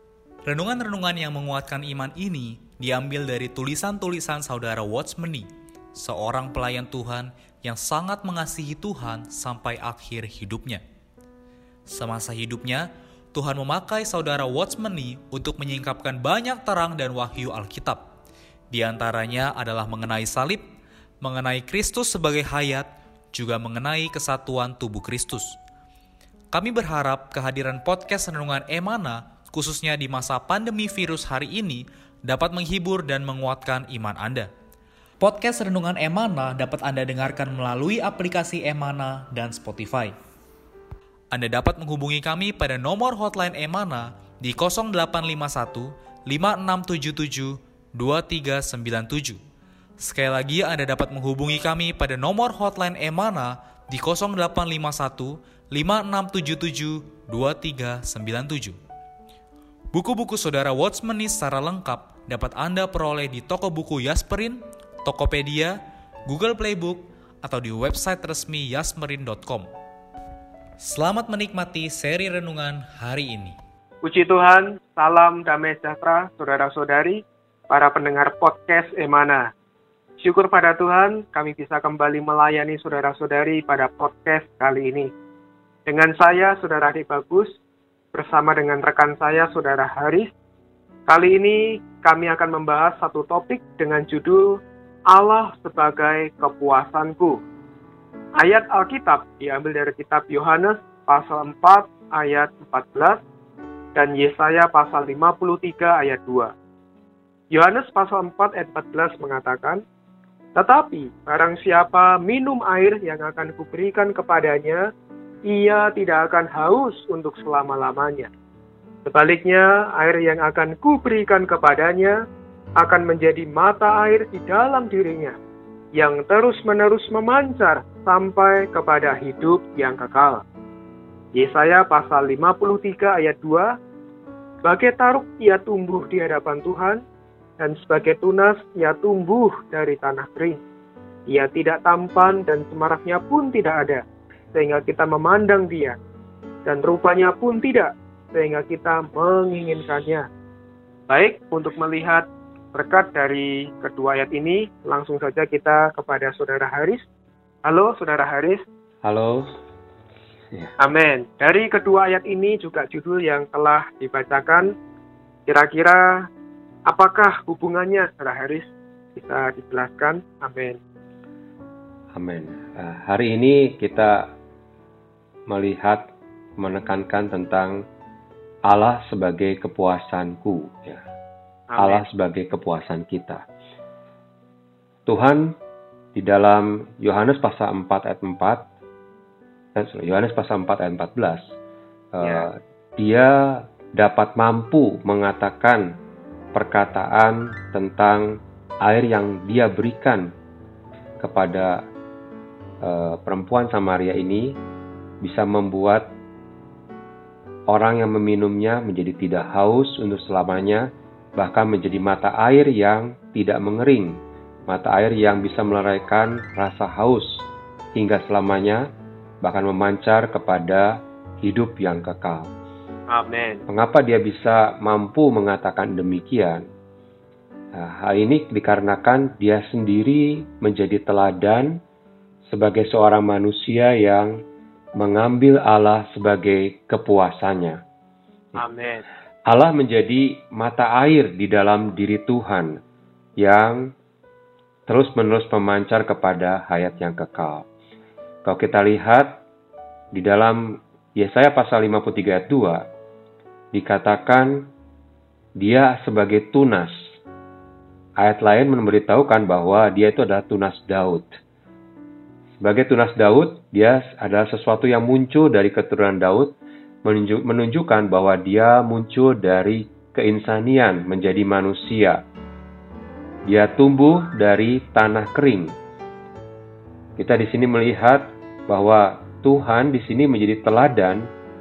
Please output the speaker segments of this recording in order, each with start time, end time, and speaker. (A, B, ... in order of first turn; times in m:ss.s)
0:00.4-0:10.8 A
0:11.9-0:18.0 A
0:18.7-0:20.6 A
0:21.2-0:25.5 A
0:26.5-0:34.5 A
0:35.2-0:40.1 A
0:41.3-0:49.4 A
0:50.0-0:58.8 A
0:59.9-1:05.8 A
1:06.3-1:09.7 A
1:10.8-1:13.6 A
1:14.0-1:19.4 B
1:20.2-1:25.1 B
1:25.8-1:27.5 B
1:28.1-1:30.3 B
1:31.1-1:34.6 B
1:35.1-1:37.4 B
1:38.4-1:43.2 B
1:43.9-1:46.5 B
1:47.5-1:49.8 B
1:50.5-1:54.8 B
1:55.5-1:58.3 B
1:59.0-2:02.2 B
2:02.8-2:05.3 B
2:06.0-2:10.4 B
2:11.4-2:13.7 B
2:14.6-2:17.0 B
2:17.6-2:20.6 B
2:21.3-2:24.0 B
2:24.5-2:26.0 B
2:26.6-2:30.2 B
2:31.1-2:37.0 B
2:37.6-2:38.6 B
2:39.0-2:39.5 C
2:40.8-2:44.7 B
2:45.5-2:46.0 B
2:46.9-2:50.8 B
2:52.1-2:54.2 C
2:55.5-2:56.0 C
2:56.6-2:57.8 C
2:58.7-3:01.0 C
3:01.7-3:02.0 B
3:01.8-3:03.4 C
3:05.0-3:05.4 C
3:06.1-3:08.6 C
3:09.8-3:11.4 C
3:12.1-3:15.8 C
3:12.2-3:12.5 B
3:16.5-3:18.2 C
3:18.8-3:20.3 C
3:21.2-3:21.8 C
3:22.8-3:24.6 C
3:25.2-3:26.1 C
3:27.7-3:30.8 C
3:31.4-3:34.2 C
3:34.7-3:38.8 C
3:39.4-3:42.5 C
3:43.1-3:43.6 B
3:43.7-3:46.6 C
3:47.7-3:51.7 C
3:52.5-3:54.3 C
3:55.0-3:57.8 C
3:58.6-3:59.0 B
3:59.5-4:02.7 C
4:03.4-4:03.8 C
4:04.9-4:07.6 C
4:08.4-4:09.4 C
4:10.1-4:10.6 C
4:11.2-4:12.8 C
4:13.7-4:14.6 C
4:15.6-4:16.9 C
4:18.2-4:21.2 C
4:22.6-4:26.5 C
4:27.0-4:32.2 C
4:33.5-4:35.7 C
4:37.2-4:41.2 C